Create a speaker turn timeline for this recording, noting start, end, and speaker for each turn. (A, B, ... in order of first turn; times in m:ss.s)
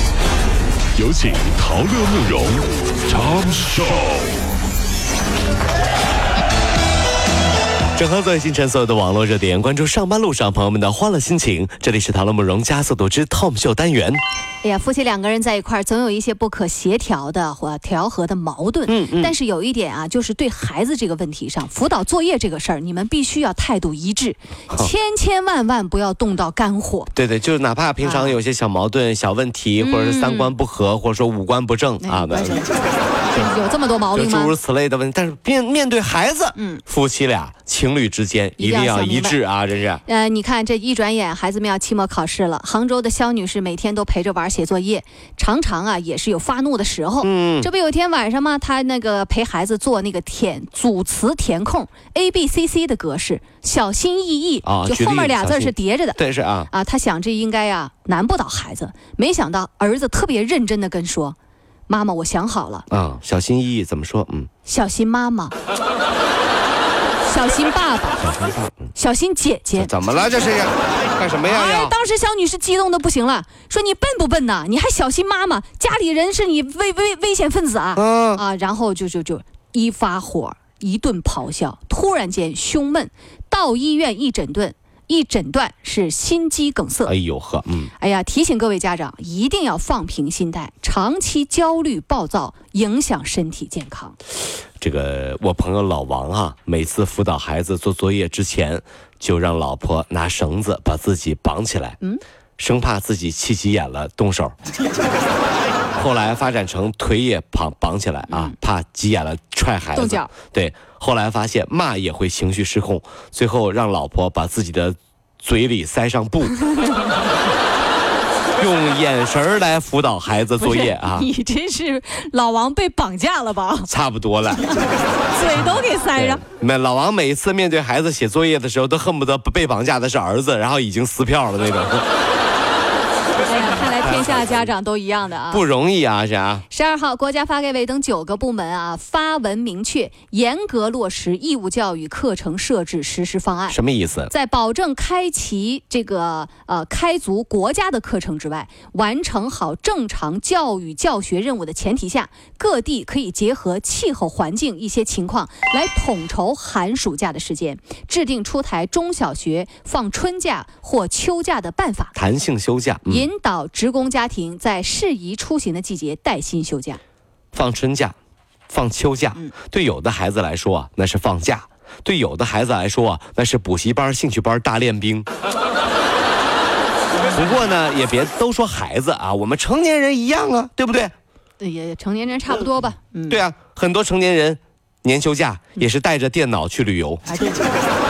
0:01.0-0:04.3 A
0:08.0-0:14.2 B
0:14.6-0:27.1 C
0:18.9-0:19.3 B
0:27.1-0:32.6 B
0:28.0-0:28.4 C
0:29.8-0:30.5 C
0:32.0-0:34.5 C
0:34.1-0:40.0 B
0:36.5-0:36.8 C
0:38.6-0:39.4 C
0:40.0-1:01.4 C
0:47.2-0:47.7 B
0:54.6-0:56.7 B
1:01.9-1:02.9 C
1:02.9-1:04.5 B
1:04.6-1:05.5 C
1:07.2-1:08.3 C
1:08.2-1:08.9 B
1:08.9-1:09.9 C
1:09.8-1:11.9 B
1:11.4-1:27.1 C
1:17.9-1:18.4 B
1:27.0-1:27.9 B
1:28.0-1:34.2 C
1:34.8-1:42.0 B
1:42.6-1:44.5 B
1:46.0-1:56.6 B
1:48.3-1:48.5 C
1:49.9-1:50.3 C
1:58.6-2:01.3 B
2:00.6-2:03.9 C
2:03.9-2:04.8 B
2:05.3-2:06.4 C
2:06.1-2:12.0 B
2:13.4-2:15.6 C
2:13.8-2:14.7 B
2:15.5-2:16.6 B
2:16.7-2:23.8 C
2:23.7-2:24.3 B
2:24.3-2:42.1 C
2:42.1-2:43.3 B
2:43.0-2:47.0 C
2:47.5-2:48.1 B
2:48.7-2:55.3 B
2:57.2-2:57.5 C
2:57.3-3:01.1 B
3:01.6-3:03.4 C
3:03.3-3:07.2 B
3:07.3-3:07.7 C